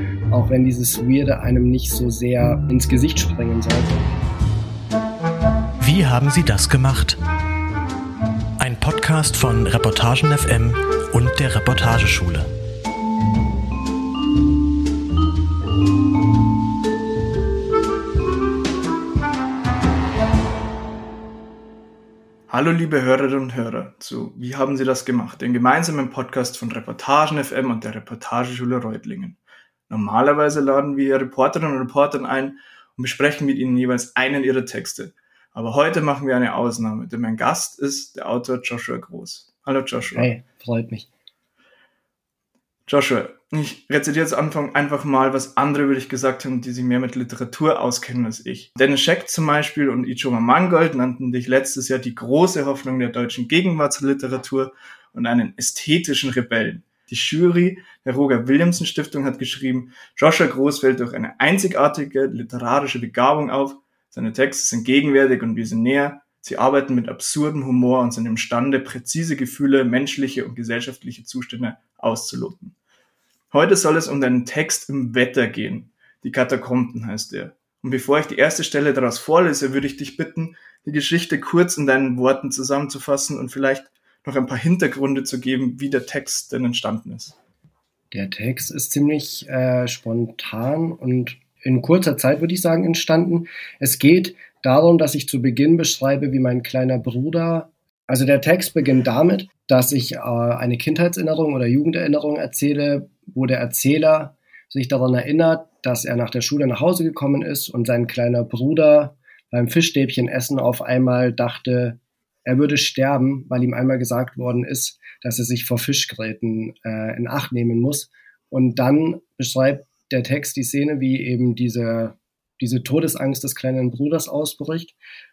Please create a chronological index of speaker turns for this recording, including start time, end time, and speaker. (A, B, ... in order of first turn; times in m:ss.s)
0:00.3-0:04.1 A
0:05.8-0:07.2 B
0:08.6-0:12.5 B
0:22.5-0:29.4 C
0:29.9-0:40.3 C
0:40.2-0:41.1 A
0:42.9-1:12.8 C
1:13.5-1:27.4 C
1:28.1-2:05.0 A